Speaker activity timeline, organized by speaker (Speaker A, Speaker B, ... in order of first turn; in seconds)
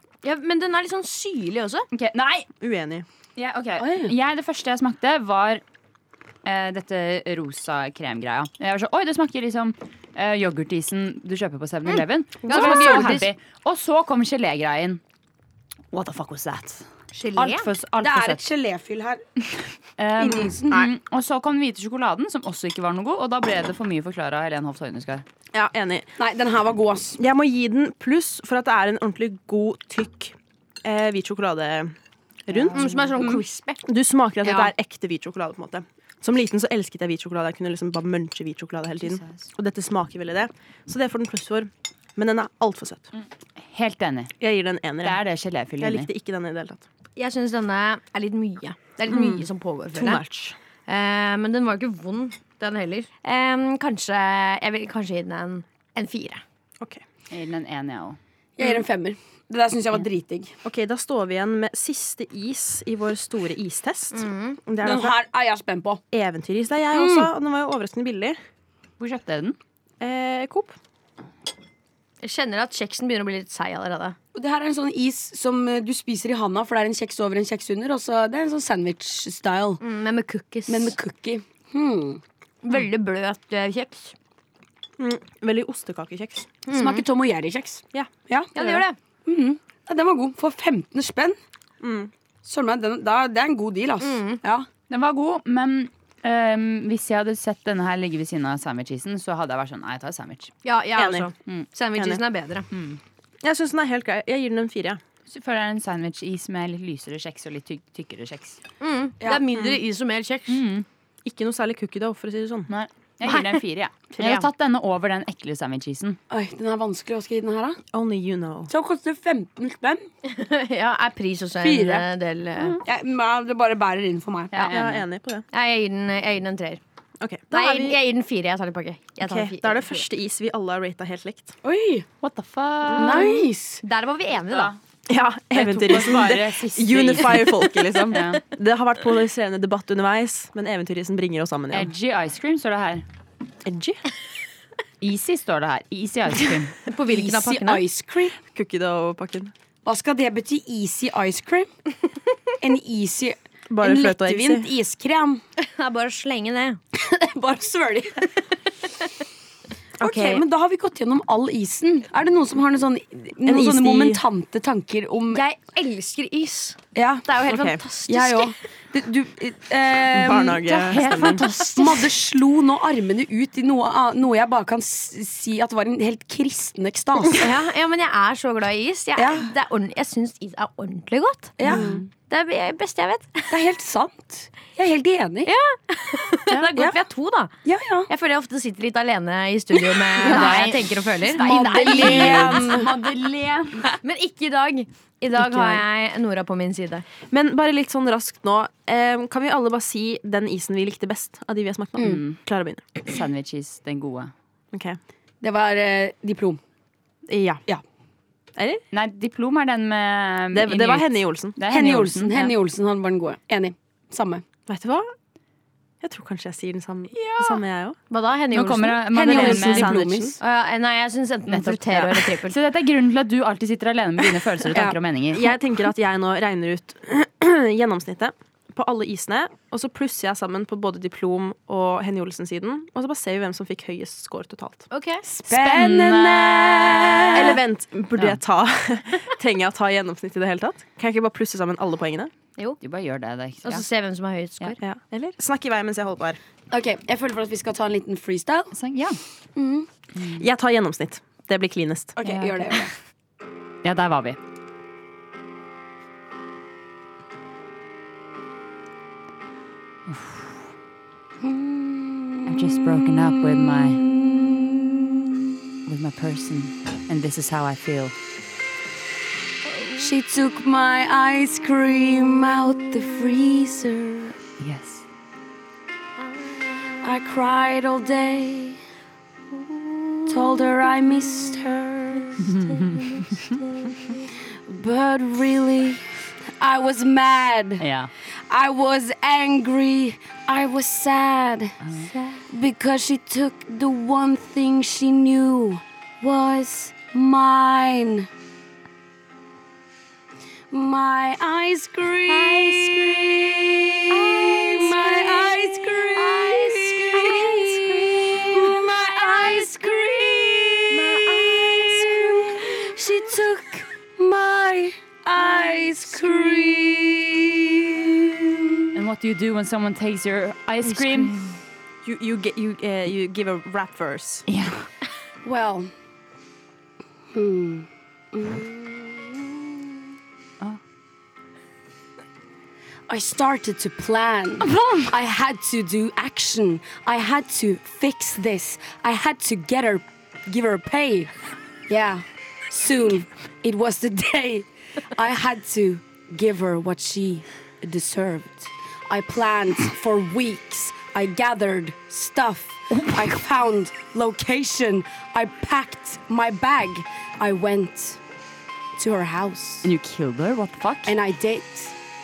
Speaker A: 0.2-1.9, 11.9-13.3, 17.1-17.7, 32.7-33.8, 47.2-50.2, 50.9-56.4, 64.1-64.6, 72.2-74.2, 79.8-81.0, 82.6-84.2, 86.7-87.0, 88.5-89.0, 94.0-94.4, 100.6-102.7, 108.8-110.6, 113.2-113.6, 114.2-114.5, 120.2-122.8, 125.5-126.8, 127.5-130.1, 133.3-134.7, 146.4-147.8, 155.6-156.8, 165.3-168.6, 171.8-172.1, 177.3-181.6, 182.3-183.6, 185.4-187.5, 188.1-192.6, 194.0-197.1, 218.1-219.6, 220.4-222.6, 234.9-235.2, 243.6-244.8, 302.3-303.5, 304.1-310.0, 310.9-312.9, 316.2-316.8, 320.8-321.6
Speaker B: 1.9-2.5, 3.4-5.6, 6.5-15.0, 15.9-18.4, 20.0-25.2, 32.5-33.2, 39.0-39.5, 43.6-44.3, 45.0-46.1, 57.3-58.2, 69.0-69.6, 94.9-100.5, 102.7-103.0, 105.3-108.6, 110.5-110.9, 112.7-116.2, 124.5-125.0, 132.2-133.4, 134.5-134.8, 135.5-138.4, 141.7-143.1, 145.0-146.8, 170.9-171.6, 181.7-182.0, 190.2-193.9, 202.0-202.4, 203.0-204.3, 208.9-212.6, 217.2-217.6, 218.5-220.0, 221.5-225.5, 235.5-237.6, 242.8-243.8, 248.7-249.2, 250.2-250.4, 252.2-252.8, 253.8-254.4, 260.1-260.5, 262.5-264.0, 265.9-268.1, 274.6-275.1, 282.4-283.4, 287.8-288.1, 318.9-321.3, 324.5-324.9, 334.6-335.1, 359.8-361.2
Speaker C: 2.6-3.1, 12.4-13.1, 25.5-26.1, 27.2-31.9, 32.5-32.8, 33.9-43.1, 44.4-45.2, 45.8-46.9, 49.1-50.6, 60.6-65.2, 66.1-68.4, 70.0-70.8, 85.0-86.5, 87.9-88.8, 91.8-92.1, 101.0-101.3, 103.4-105.0, 111.2-112.7, 117.9-118.7, 124.7-125.5, 127.2-128.0, 129.2-131.6, 132.9-133.2, 135.1-141.9, 143.6-144.0, 148.5-149.5, 153.7-154.7, 160.0-160.4, 163.4-164.2, 167.4-167.8, 170.1-171.5, 181.7-182.0, 190.2-190.7, 192.2-192.5, 197.3-202.8, 204.7-205.0, 207.3-207.6, 208.6-208.8, 210.5-211.6, 214.7-215.1, 216.0-218.0, 219.3-220.4, 225.3-234.9, 237.3-242.3, 244.8-246.4, 250.2-252.2, 322.0-324.4
Speaker D: 3.8-4.1, 18.0-19.2, 20.2-20.9, 26.2-27.2, 58.6-60.5, 64.8-66.0, 66.9-67.3, 74.3-79.8, 80.7-82.2, 86.7-88.5, 89.2-91.4, 92.4-94.7, 116.3-117.8, 118.7-120.0, 121.6-122.1, 122.8-124.7, 131.6-132.1, 132.9-133.8, 147.1-148.4, 149.8-151.7, 152.6-155.4, 156.9-158.3, 160.0-165.4, 166.9-167.3, 168.1-177.5, 179.2-179.5, 181.6-181.9, 183.5-185.5, 187.6-188.1, 191.3-192.9, 195.4-195.8, 205.4-206.6, 211.7-214.4, 219.1-220.4, 224.7-225.0, 235.3-237.6, 246.7-248.7, 249.6-249.9, 252.2-252.9, 261.4-265.6, 270.0-274.4, 277.0-278.8, 280.3-282.7, 284.7-287.9, 288.5-298.3, 300.7-318.9, 325.4-325.9, 327.3-330.0, 333.1-341.3, 341.9-358.2, 359.0-359.9, 361.1-362.0